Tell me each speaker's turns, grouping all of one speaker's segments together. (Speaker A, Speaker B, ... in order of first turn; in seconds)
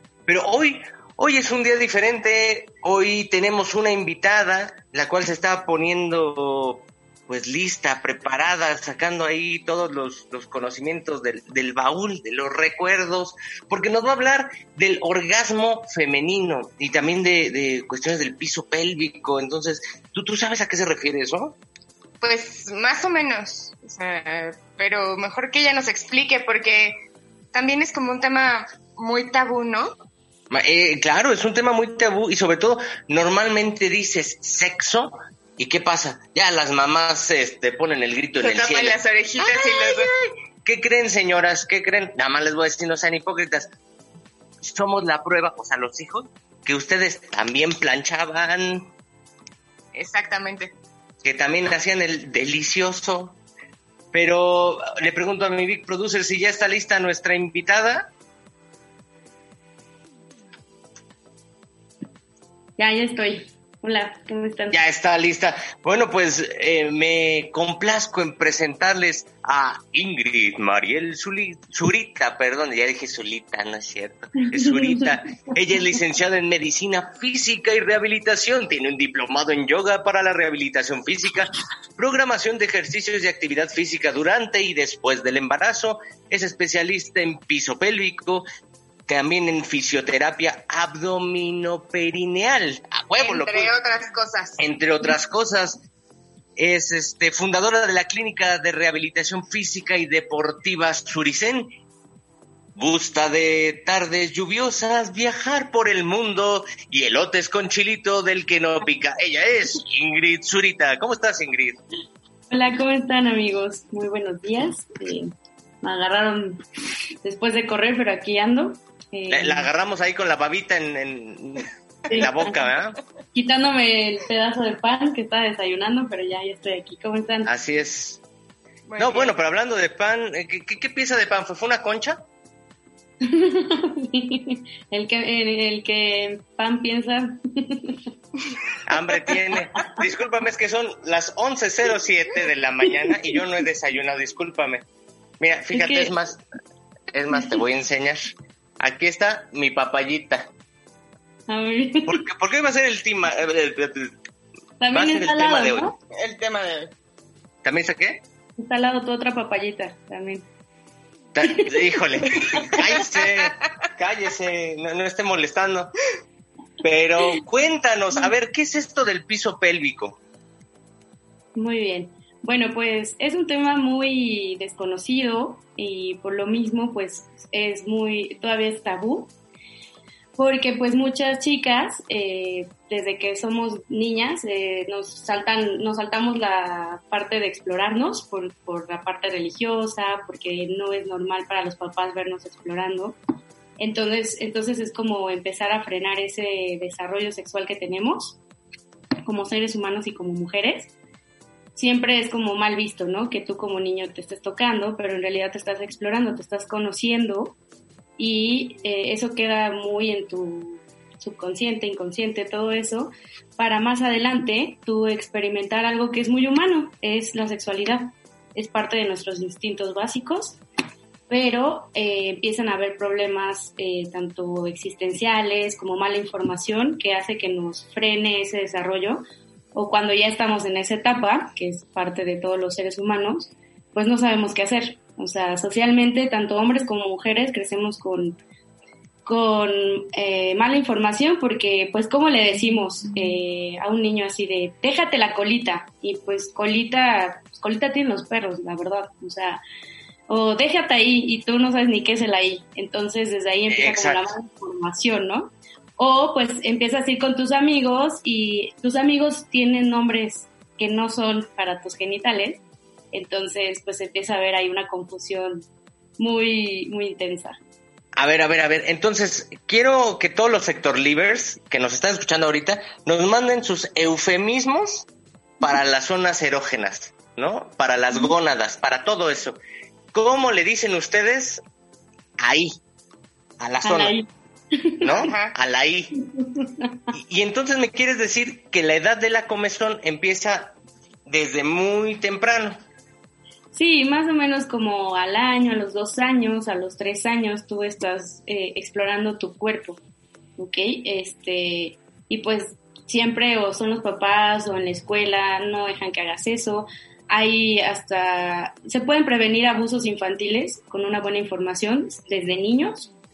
Speaker A: 0.3-21.6, 30.5-40.1, 40.6-43.7, 44.6-48.9, 51.2-53.4, 54.1-58.1, 64.7-88.5, 89.1-93.7, 94.6-95.8, 96.6-101.7, 102.8-111.8, 119.3-123.0, 127.5-128.2, 129.0-132.2, 138.9-144.8, 145.4-146.4, 147.1-150.5, 152.1-154.1, 154.9-155.9, 157.6-158.2, 161.3-165.9, 166.8-170.2, 253.7-254.3, 268.1-275.1, 275.6-279.6, 280.1-281.6, 282.4-282.8, 283.6-284.1, 285.0-286.1, 287.1-290.7, 291.2-292.8
Speaker B: 22.2-27.0, 27.5-29.9, 38.4-40.3, 49.9-50.7, 93.2-94.6, 128.9-129.3, 156.1-156.9, 285.2-285.5
Speaker C: 62.8-64.8, 74.5-75.0, 112.5-116.6, 117.2-119.7, 122.1-122.6, 123.3-127.5, 133.2-138.0, 145.7-146.1, 151.5-152.2, 154.8-155.9, 158.6-160.4, 161.4-161.7, 162.3-162.7, 171.5-179.3, 180.4-193.2, 193.8-198.4, 199.2-200.9, 201.8-207.6, 208.2-220.6, 221.3-238.4, 239.2-249.6, 250.3-265.6, 266.2-267.6, 283.8-285.3, 286.5-287.0, 293.7-300.0, 300.6-313.1